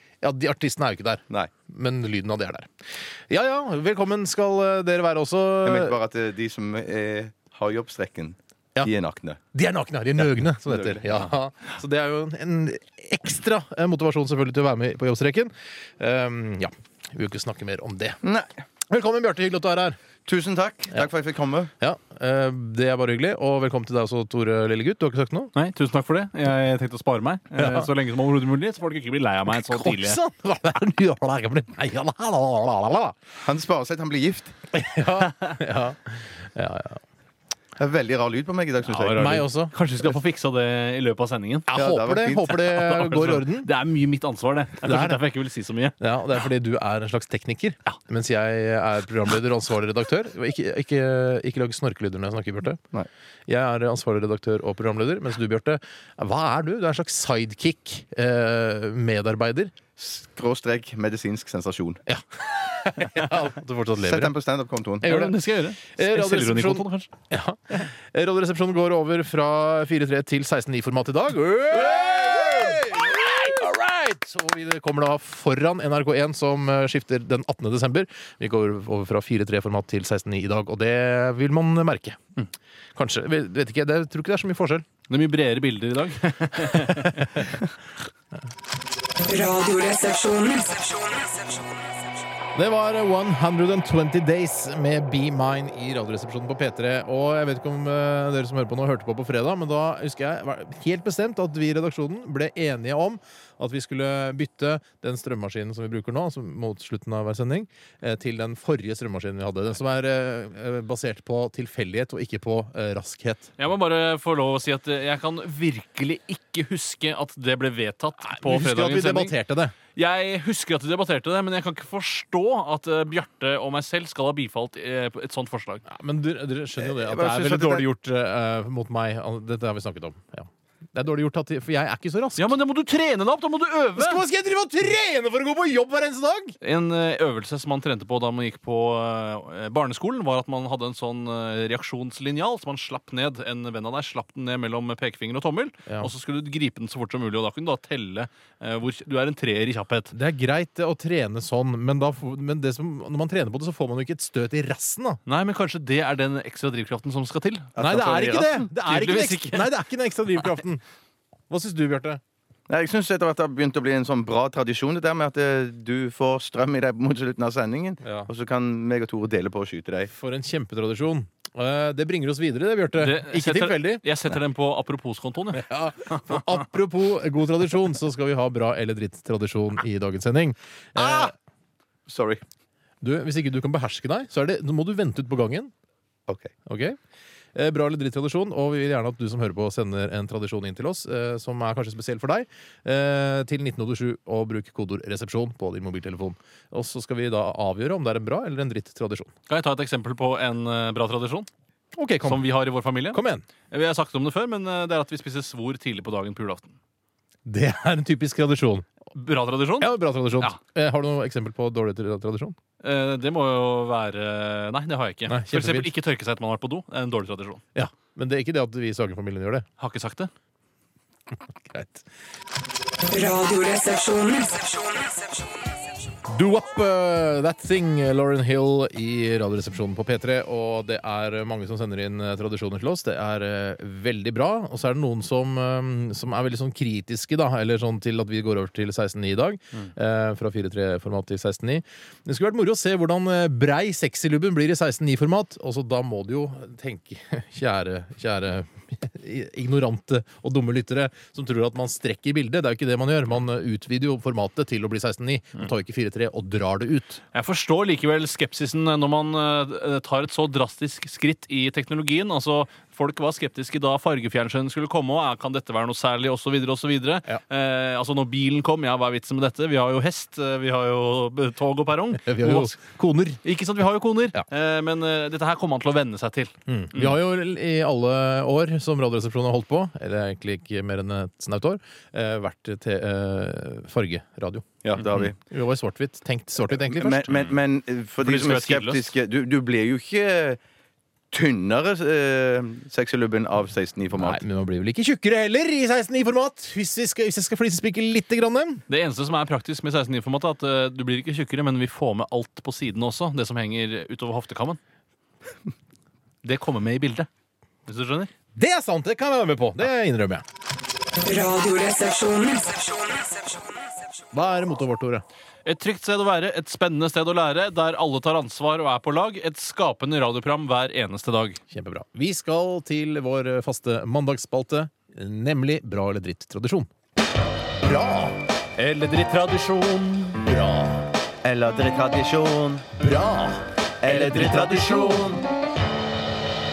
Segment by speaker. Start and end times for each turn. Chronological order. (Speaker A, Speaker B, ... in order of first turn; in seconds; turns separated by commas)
Speaker A: 0.2-2.7, Speaker A: 3.3-6.0, Speaker B: 5.6-9.4, Speaker A: 9.5-18.2, Speaker B: 10.7-11.3, Speaker B: 18.2-18.5, Speaker A: 18.9-20.0, Speaker B: 20.2-21.7, Speaker A: 21.8-25.5, Speaker C: 25.6-30.2, Speaker A: 27.6-27.9, Speaker A: 29.5-33.2, Speaker B: 33.4-34.5, Speaker A: 34.7-37.0, Speaker B: 37.8-39.4, Speaker C: 38.8-41.7, Speaker A: 39.2-40.1, Speaker A: 41.7-43.7, Speaker B: 41.7-42.5, Speaker C: 42.5-46.0, Speaker A: 44.8-45.2, Speaker A: 46.0-52.8, Speaker A: 53.5-59.8, Speaker B: 60.0-62.0, Speaker A: 62.1-64.3, Speaker B: 64.0-65.1, Speaker A: 65.0-65.3, Speaker C: 65.0-67.1, Speaker A: 66.0-82.2, Speaker C: 72.1-72.7, Speaker A: 83.0-84.9, Speaker C: 85.1-87.5, Speaker A: 86.9-87.2, Speaker D: 89.5-90.6, Speaker A: 92.5-113.5, Speaker C: 113.6-119.3, Speaker A: 118.2-119.8, Speaker C: 119.9-125.8, Speaker A: 125.8-132.6, Speaker B: 126.8-127.9, Speaker C: 132.4-134.2, Speaker A: 133.9-136.6, Speaker C: 136.6-150.1, Speaker A: 145.9-146.1, Speaker A: 150.1-155.2, Speaker C: 155.3-157.8, Speaker B: 157.8-158.7, Speaker A: 157.8-160.8, Speaker C: 158.8-159.8, Speaker A: 161.5-162.2, Speaker B: 162.7-170.1, Speaker A: 168.0-168.3, Speaker A: 170.1-174.0, Speaker C: 173.0-176.6, Speaker A: 175.5-181.3, Speaker B: 181.0-181.3, Speaker B: 182.1-182.4, Speaker A: 183.0-185.7, Speaker A: 186.6-187.0, Speaker A: 187.6-199.3, Speaker C: 199.5-201.5, Speaker A: 201.9-202.5, Speaker C: 202.2-203.2, Speaker A: 203.1-203.4, Speaker C: 203.7-206.7, Speaker A: 207.5-208.9, Speaker C: 209.1-210.6, Speaker A: 209.8-212.6, Speaker C: 212.8-217.6, Speaker A: 215.3-215.9, Speaker A: 217.8-219.7, Speaker C: 219.8-220.3, Speaker A: 221.7-222.1, Speaker D: 223.2-224.5, Speaker A: 226.3-257.2, Speaker C: 257.3-272.8, Speaker A: 272.2-273.4, Speaker C: 273.4-277.2, Speaker A: 276.7-287.4, Speaker B: 284.8-285.4, Speaker B: 286.7-290.6, Speaker C: 288.2-289.1, Speaker B: 291.3-294.4, Speaker A: 294.1-298.8, Speaker C: 298.9-304.8, Speaker C: 306.4-307.3, Speaker C: 307.9-308.3, Speaker A: 308.5-310.4, Speaker C: 311.4-312.6, Speaker A: 314.3-315.2, Speaker C: 315.6-321.6, Speaker A: 321.7-326.9, Speaker A: 327.8-328.4, Speaker C: 328.8-330.5, Speaker A: 330.5-331.0, Speaker B: 331.4-332.9, Speaker A: 332.9-334.9, Speaker B: 334.0-335.4, Speaker C: 334.7-335.2